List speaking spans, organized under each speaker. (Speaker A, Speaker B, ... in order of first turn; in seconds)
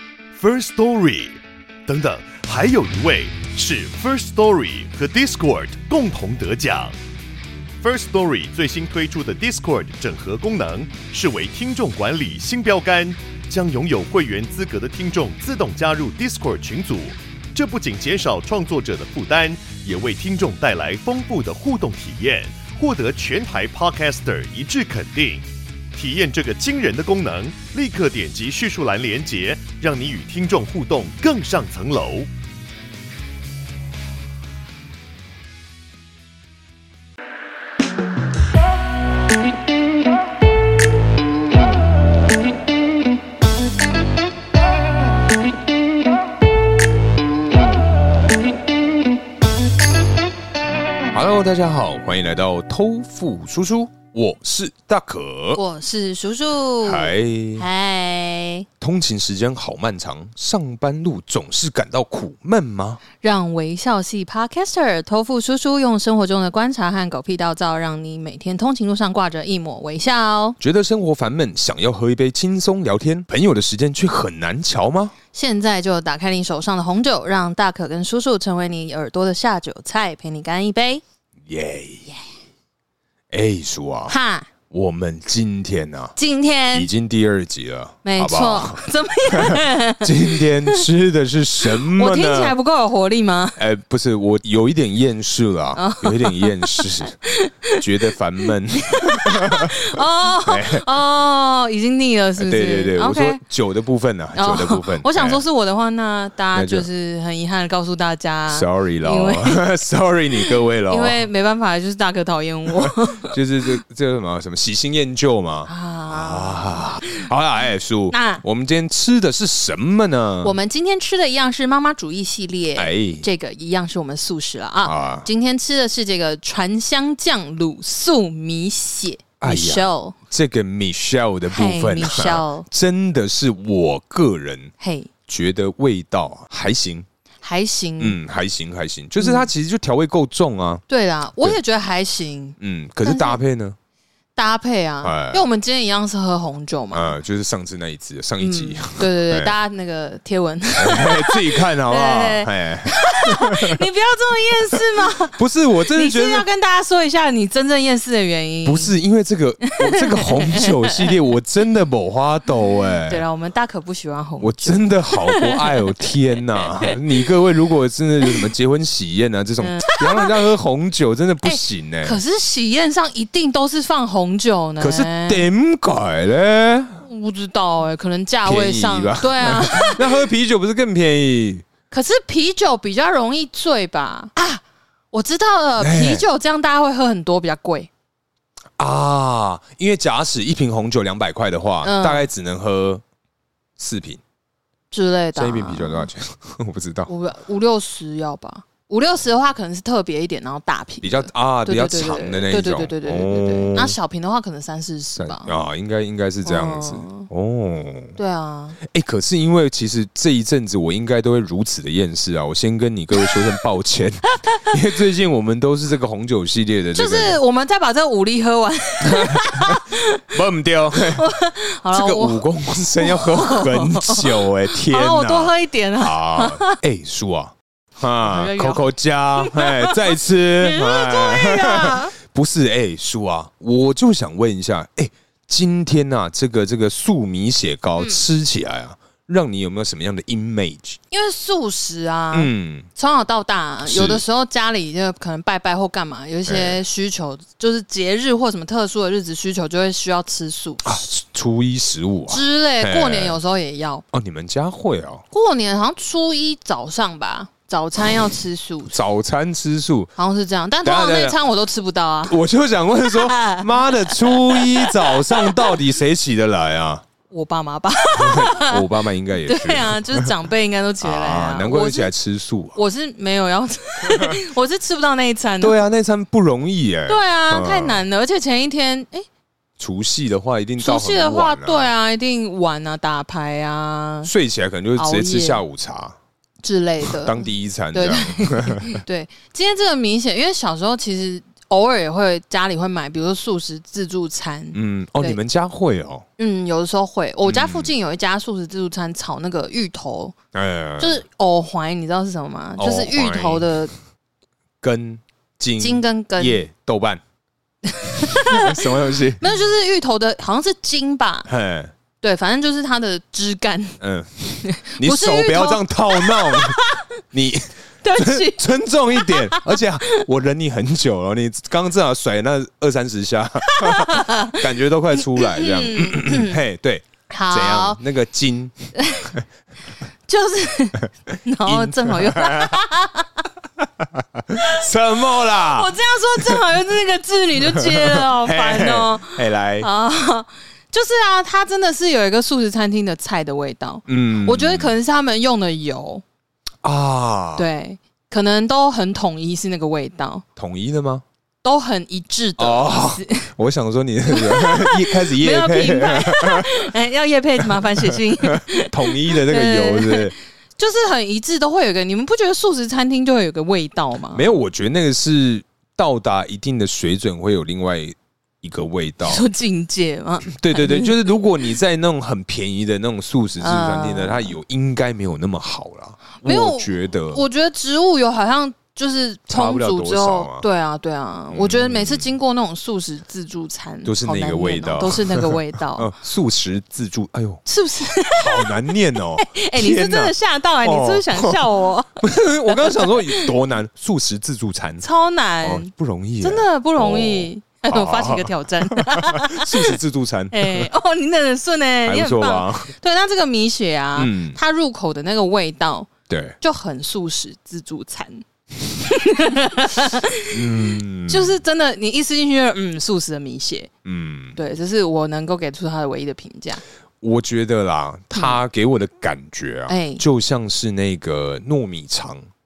Speaker A: 0.3-7.0, 7.8-32.3
Speaker B: 51.1-55.6, 56.8-57.7, 58.8-63.0, 70.6-75.1, 81.5-82.1, 83.3-84.2, 84.7-86.2, 86.7-92.5, 93.6-97.2, 97.7-100.9, 102.4-105.4, 106.5-106.9, 108.5-111.2, 112.8-120.5, 122.8-123.2, 124.8-125.3, 129.4-134.7, 135.3-137.1, 138.0-140.8, 142.6-143.8, 145.0-145.4, 146.9-149.6, 150.8-153.8, 154.8-156.5, 158.7-163.2, 164.4-172.2, 174.8-177.0, 178.4-181.7, 185.8-186.3, 188.8-193.0, 193.8-194.2, 195.4-197.1, 201.0-204.0, 205.2-208.2, 208.8-217.4, 219.0-221.3, 221.9-241.0, 242.3-242.9, 243.8-244.2, 246.5-246.8, 250.8-253.4, 254.1-255.2, 258.9-260.1, 260.8-261.4, 262.3-267.1, 268.2-270.3, 271.0-272.8, 274.0-274.4, 275.6-278.0, 279.8-281.9, 284.2-286.2, 287.0-289.0, 294.7-296.3, 297.5-297.9, 300.5-301.2, 302.8-303.8, 304.8-307.2, 308.2-309.6, 311.5-311.9, 314.0-329.4, 331.6-332.8, 333.8-336.6, 337.6-339.9, 344.1-344.9, 346.8-347.7, 350.6-351.2, 352.6-356.9, 357.8-360.3, 364.3-369.4, 370.4-377.4, 379.5-380.7, 381.5-382.3, 384.1-387.6, 388.3-391.6, 392.2-395.1, 395.6-400.9, 402.1-402.9, 404.2-404.6, 406.3-406.6, 410.5-411.6, 414.1-414.6, 417.2-422.5
Speaker C: 55.5-58.7, 63.2-70.6, 75.3-81.0, 84.1-84.5, 86.2-86.9, 88.0-90.8, 91.7-93.6, 95.8-103.4, 104.3-109.7, 110.4-113.3, 115.7-117.3, 118.1-118.4, 120.4-130.2, 131.5-132.7, 134.8-135.1, 137.4-138.2, 139.2-139.5, 140.9-143.4, 144.4-147.2, 148.4-155.4, 155.9-158.9, 159.6-161.1, 163.1-165.8, 166.6-167.3, 169.6-170.3, 171.4-175.5, 177.0-180.2, 181.9-187.9, 191.8-192.3, 194.9-196.1, 197.1-205.6, 206.4-207.3, 208.2-208.8, 216.9-220.3, 221.1-222.4, 222.9-226.8, 228.2-232.1, 241.1-251.1, 252.3-254.0, 255.3-259.0, 260.2-262.4, 263.0-265.7, 267.3-268.9, 269.4-272.1, 272.8-275.8, 277.1-279.3, 280.8-284.3, 285.0-285.6, 286.6-295.4, 296.4-300.4, 301.0-303.9, 305.8-306.6, 307.9-311.5, 312.2-314.0, 314.6-317.1, 318.0-320.1, 323.7-324.6, 325.1-326.6, 327.3-328.0, 329.0-329.3, 330.3-333.5, 335.4-346.2, 347.6-350.4, 351.6-353.5, 354.3-364.5, 369.2-371.2, 373.6-374.6, 376.4-386.1, 387.7-393.5, 395.0-395.9, 396.4-400.0, 400.5-413.9, 414.6-416.8, 418.3-418.6, 419.9-420.2